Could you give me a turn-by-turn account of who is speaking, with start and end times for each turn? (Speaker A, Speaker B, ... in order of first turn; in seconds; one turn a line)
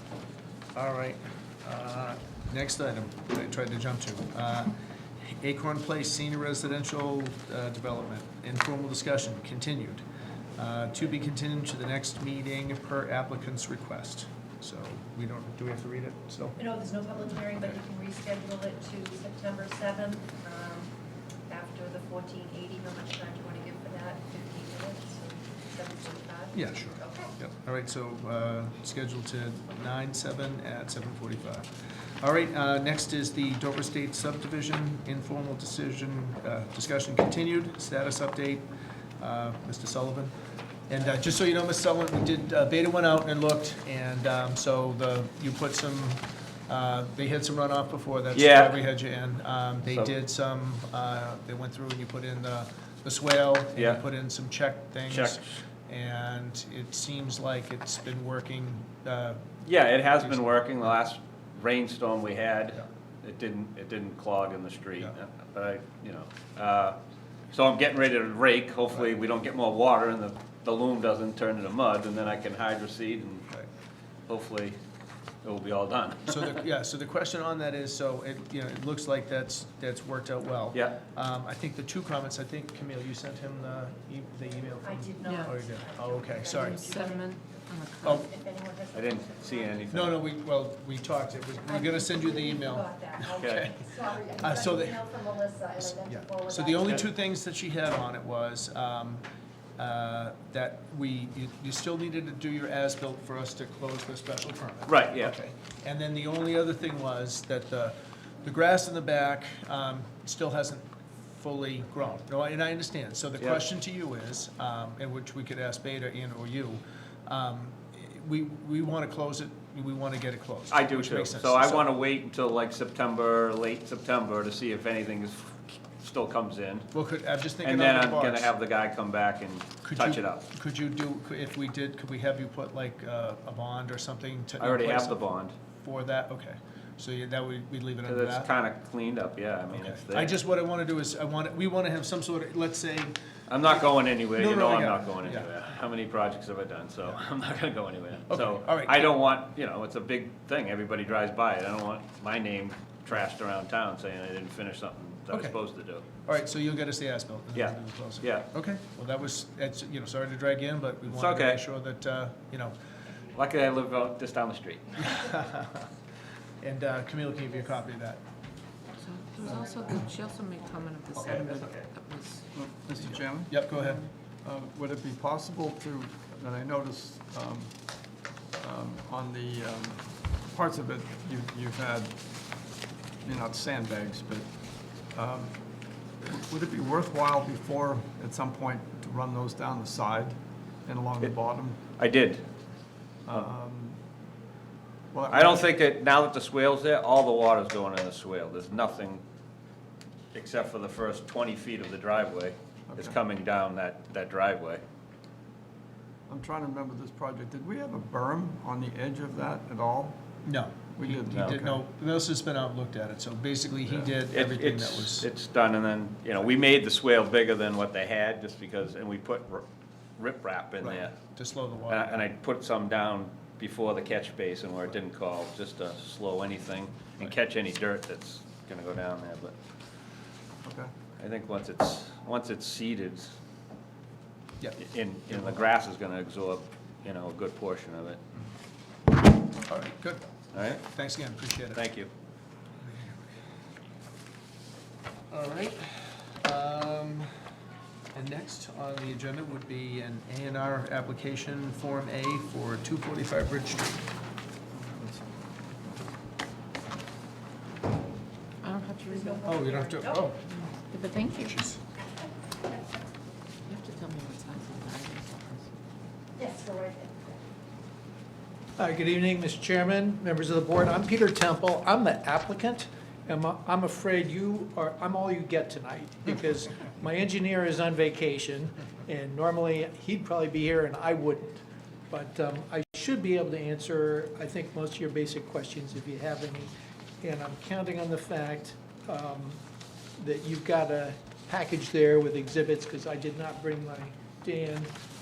Speaker A: 0.7-4.8
Speaker A: 5.4-10.0
Speaker A: 10.6-16.6
Speaker B: 16.6-20.9
Speaker B: 21.5-27.3
Speaker A: 26.5-31.6
Speaker A: 32.2-38.7
Speaker A: 39.2-40.3
Speaker A: 40.9-60.9
Speaker C: 48.3-48.8
Speaker C: 53.7-54.0
Speaker C: 55.1-55.5
Speaker C: 59.6-67.0
Speaker C: 67.5-73.5
Speaker C: 74.3-74.8
Speaker C: 75.4-76.6
Speaker A: 76.3-86.9
Speaker B: 84.8-87.4
Speaker D: 85.2-85.5
Speaker D: 86.5-88.2
Speaker B: 88.0-89.9
Speaker C: 88.9-90.2
Speaker A: 89.9-93.9
Speaker B: 91.7-97.1
Speaker C: 93.4-93.7
Speaker A: 94.4-95.0
Speaker A: 95.8-99.2
Speaker A: 99.8-121.9
Speaker C: 104.8-105.3
Speaker C: 120.7-126.9
Speaker A: 126.9-128.5
Speaker C: 127.6-130.4
Speaker A: 129.8-135.2
Speaker C: 134.6-135.5
Speaker A: 135.8-138.5
Speaker C: 138.0-140.3
Speaker A: 139.7-143.2
Speaker C: 143.5-156.0
Speaker A: 143.7-145.5
Speaker A: 148.3-149.1
Speaker A: 155.3-162.7
Speaker C: 157.5-158.5
Speaker C: 161.1-161.6
Speaker C: 163.3-165.3
Speaker A: 165.0-165.9
Speaker A: 166.6-168.2
Speaker D: 169.0-172.5
Speaker C: 171.2-171.8
Speaker E: 172.5-173.5
Speaker A: 173.4-174.0
Speaker D: 173.5-174.1
Speaker E: 174.4-177.7
Speaker E: 178.6-182.1
Speaker E: 183.2-184.5
Speaker E: 185.1-185.6
Speaker E: 186.2-191.8
Speaker C: 191.9-192.4
Speaker E: 193.2-194.0
Speaker E: 195.1-195.8
Speaker C: 195.3-199.2
Speaker C: 200.3-204.8
Speaker E: 202.9-203.2
Speaker E: 206.3-210.2
Speaker A: 210.4-215.3
Speaker E: 210.9-211.8
Speaker C: 211.3-211.7
Speaker E: 213.8-214.1
Speaker C: 214.3-221.1
Speaker A: 220.8-222.2
Speaker C: 221.9-229.5
Speaker E: 230.6-230.9
Speaker C: 231.2-233.3
Speaker C: 234.8-238.2
Speaker A: 239.7-241.8
Speaker C: 240.5-240.8
Speaker C: 241.7-242.1
Speaker A: 245.3-247.3
Speaker A: 248.1-254.0
Speaker E: 254.7-255.2
Speaker D: 258.6-259.5
Speaker B: 259.1-260.3
Speaker A: 259.4-260.4
Speaker D: 260.4-261.6
Speaker A: 261.4-261.8
Speaker B: 262.6-263.1
Speaker D: 263.7-265.7
Speaker B: 266.4-267.4
Speaker F: 268.8-289.6
Speaker F: 290.2-294.9